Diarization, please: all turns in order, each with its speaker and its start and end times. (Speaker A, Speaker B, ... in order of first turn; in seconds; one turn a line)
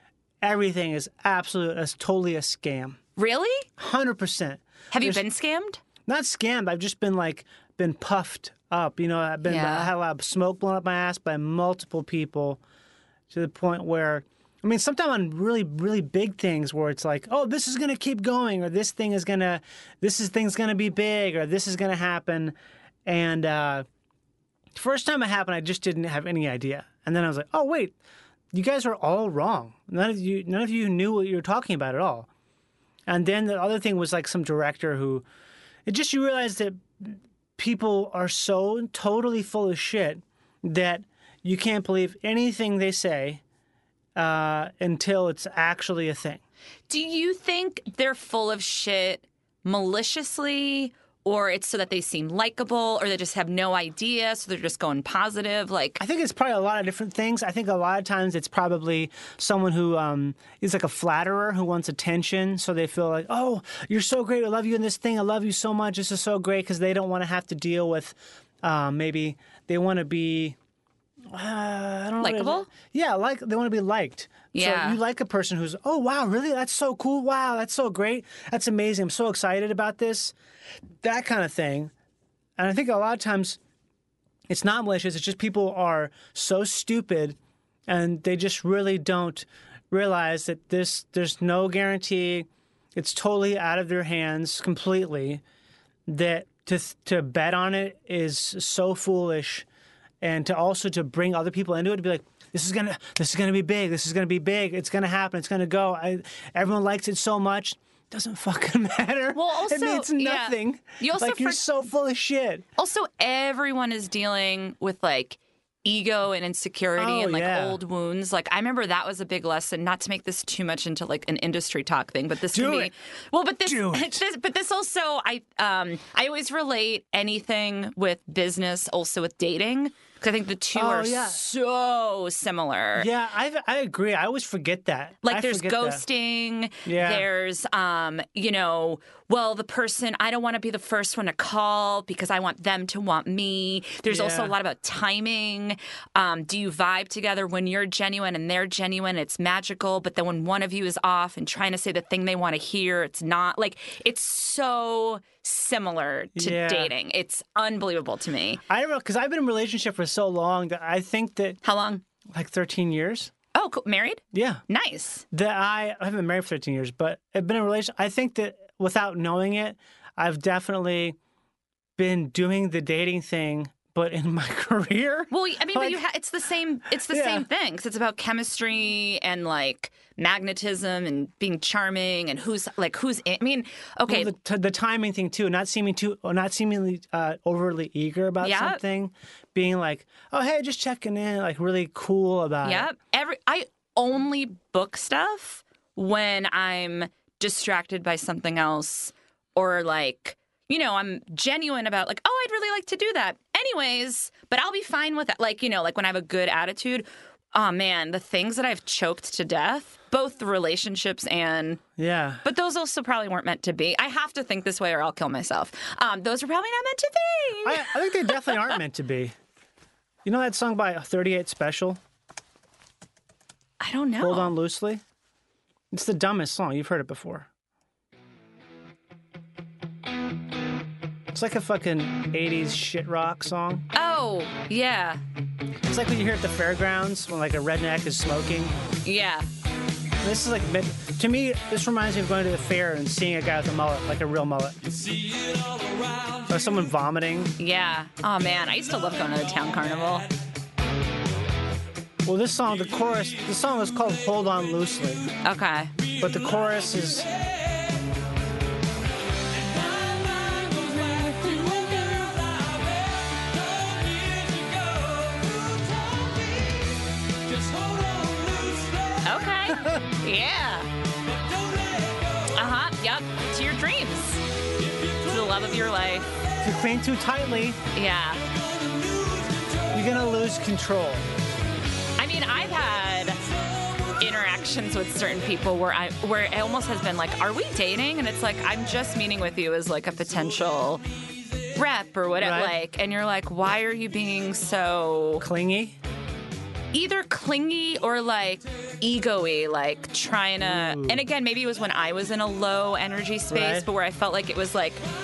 Speaker A: 0.4-3.0
Speaker B: 3.1-3.7
Speaker A: 3.8-5.2
Speaker B: 4.9-5.8
Speaker A: 6.0-12.6
Speaker B: 9.4-9.9
Speaker A: 13.3-22.6
Speaker A: 23.1-23.8
Speaker A: 24.7-27.9
Speaker A: 28.5-32.3
Speaker A: 33.1-35.2
Speaker A: 35.9-43.4
Speaker A: 44.1-46.4
Speaker B: 46.9-56.0
Speaker A: 56.0-70.5
Speaker A: 71.3-80.3
Speaker B: 72.2-72.7
Speaker B: 74.5-75.0
Speaker A: 81.0-81.9
Speaker A: 82.6-83.6
Speaker A: 84.5-87.4
Speaker A: 87.9-95.4
Speaker A: 96.1-99.7
Speaker A: 100.2-112.6
Speaker B: 109.3-111.6
Speaker B: 112.8-133.1
Speaker A: 117.0-117.8
Speaker A: 122.5-122.9
Speaker A: 123.6-124.2
Speaker A: 130.7-131.5
Speaker A: 132.9-136.0
Speaker B: 135.2-158.6
Speaker A: 136.8-137.2
Speaker A: 144.1-144.6
Speaker A: 156.4-156.9
Speaker A: 158.7-161.6
Speaker B: 161.6-162.0
Speaker A: 162.3-163.3
Speaker B: 163.6-165.2
Speaker A: 164.3-164.6
Speaker A: 165.3-171.2
Speaker A: 172.0-176.0
Speaker B: 175.3-184.3
Speaker A: 177.1-177.4
Speaker A: 184.1-192.9
Speaker B: 188.4-188.8
Speaker B: 192.6-211.8
Speaker A: 212.0-212.4
Speaker B: 212.4-218.7
Speaker A: 217.6-219.3
Speaker A: 220.2-222.0
Speaker B: 223.8-224.5
Speaker A: 224.2-225.0
Speaker A: 225.9-227.5
Speaker A: 231.3-233.9
Speaker B: 233.9-235.2
Speaker A: 235.9-238.7
Speaker B: 239.0-239.5
Speaker A: 240.2-244.8
Speaker A: 246.5-247.5
Speaker B: 247.6-250.3
Speaker A: 252.2-255.3
Speaker B: 255.4-255.9
Speaker A: 256.2-257.3
Speaker B: 260.8-262.3
Speaker B: 269.2-270.9
Speaker A: 269.7-270.1
Speaker B: 272.5-274.4
Speaker B: 275.2-276.2
Speaker A: 276.6-277.8
Speaker B: 277.9-278.4
Speaker A: 279.9-281.2
Speaker B: 282.2-283.4
Speaker B: 284.2-291.0
Speaker B: 291.7-295.4
Speaker A: 292.4-292.7
Speaker A: 295.4-296.0
Speaker B: 296.9-305.0
Speaker A: 300.6-301.2
Speaker A: 303.5-303.9